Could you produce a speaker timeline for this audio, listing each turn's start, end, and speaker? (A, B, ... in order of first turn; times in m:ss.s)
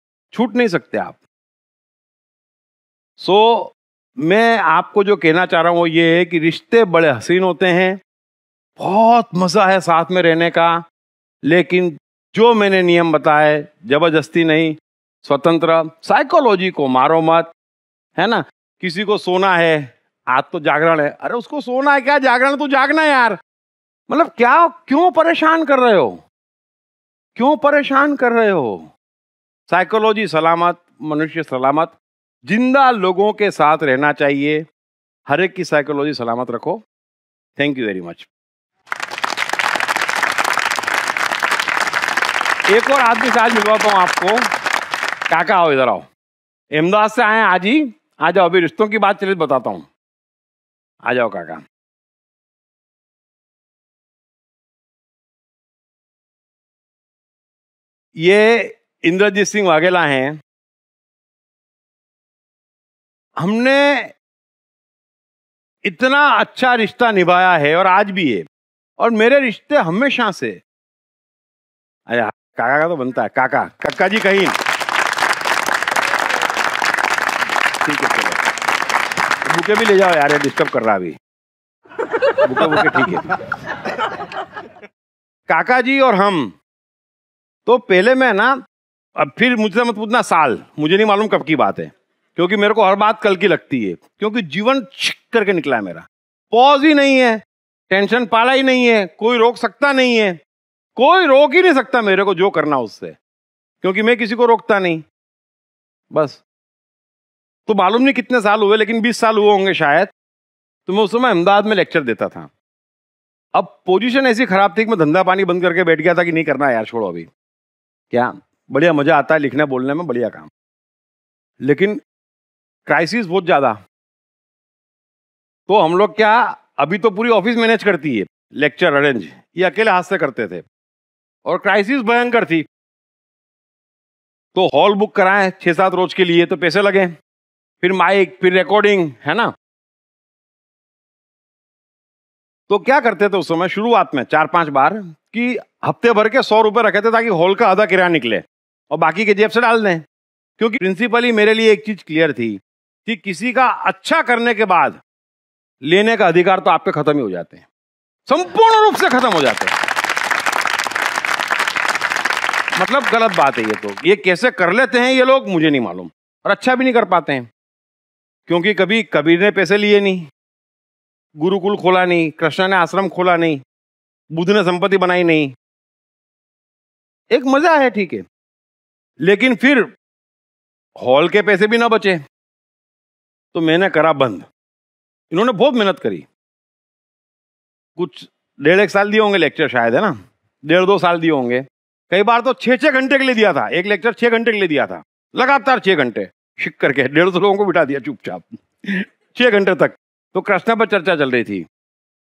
0:00.3-0:01.2 A
0:03.2-0:08.0 A
0:08.8-0:10.8 A
0:11.4-0:17.5 A
0:18.2-0:23.4 A
0:24.1-0:26.2 A
0:27.4-0:28.9 A
0:29.7-0:32.0 A
0:32.5-0:34.6 A
0:35.3-0:36.8 A
0:37.6-0:38.3 A
0:42.7-0:44.5 A
0:45.3-0:46.1 A
0:46.7-0:49.9 A
0:51.0-0:51.6 A
0:58.2-1:00.4 A
1:03.4-1:04.1 A
1:05.8-1:08.4 A
1:09.0-1:10.6 A
1:12.1-1:14.6 A
1:17.8-1:18.4 A
1:19.4-1:21.2 A
1:22.4-1:23.3 A
1:25.5-1:26.6 A
1:27.7-1:28.6 A
1:29.2-1:40.4 A
1:41.0-1:43.2 A
1:43.8-1:45.0 A
1:46.1-1:46.4 A
1:47.7-1:50.1 A
1:50.9-1:52.5 A
1:53.6-1:57.3 A
1:58.1-2:00.5 A
2:01.6-2:02.0 A
2:02.9-2:03.8 A
2:05.7-2:10.6 A
2:11.4-2:12.7 A
2:14.5-2:17.1 A
2:17.8-2:19.5 A
2:22.7-2:30.0 A
2:30.6-2:35.0 A
2:35.8-2:37.7 A
2:38.3-2:39.8 A
2:42.8-2:47.5 A
2:48.5-2:50.3 A
2:51.4-2:53.6 A
2:54.3-2:55.5 A
2:57.3-2:58.2 A
2:59.2-2:59.9 A
3:01.0-3:02.2 A
3:03.5-3:04.5 A
3:05.3-3:06.3 A
3:08.0-3:21.7 A